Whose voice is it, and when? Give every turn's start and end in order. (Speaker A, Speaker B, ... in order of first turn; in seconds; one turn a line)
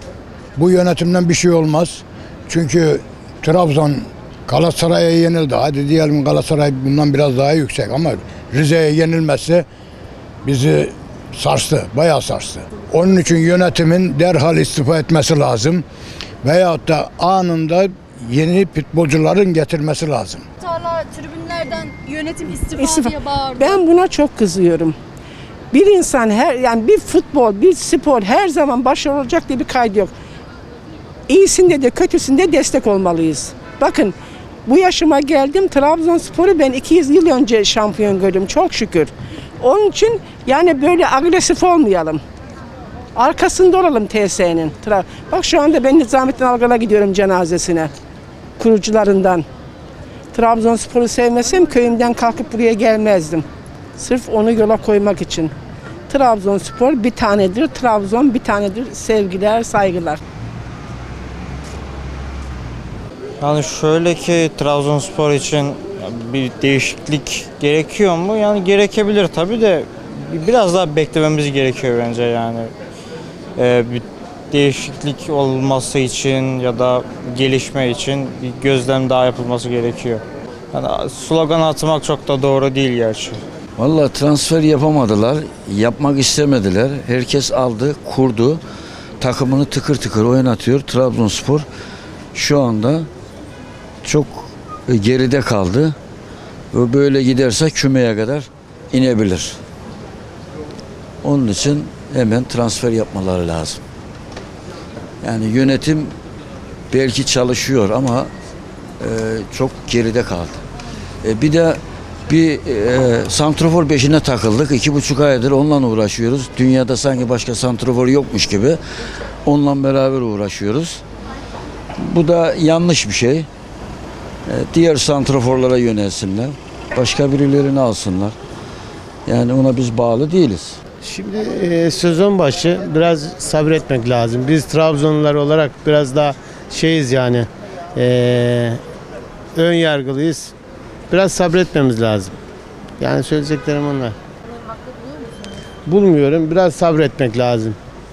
Speaker A: 0.6-9.7
Speaker A: 10.4-15.8
Speaker A: 16.4-20.4
Speaker B: 20.6-23.8
Speaker C: 22.8-25.0
Speaker C: 25.7-30.1
Speaker C: 31.3-42.2
Speaker C: 43.1-47.9
Speaker C: 48.6-49.5
Speaker C: 50.3-53.5
Speaker C: 54.0-55.5
Speaker C: 56.1-60.2
Speaker D: 63.4-72.7
Speaker D: 73.6-83.4
Speaker E: 83.8-88.6
Speaker E: 89.2-91.7
Speaker E: 92.3-93.1
Speaker E: 94.0-96.0
Speaker E: 96.7-99.6
Speaker E: 101.2-103.8
Speaker E: 105.2-106.1
Speaker E: 106.9-108.3
Speaker E: 109.0-110.6
Speaker E: 111.2-118.8
Speaker E: 119.5-121.0
Speaker E: 122.0-123.5
Speaker E: 124.5-128.4
Speaker E: 129.3-130.8
Speaker F: 131.0-138.8
Speaker F: 139.6-140.5
Speaker F: 141.1-142.3
Speaker F: 143.0-144.2
Speaker F: 145.9-147.8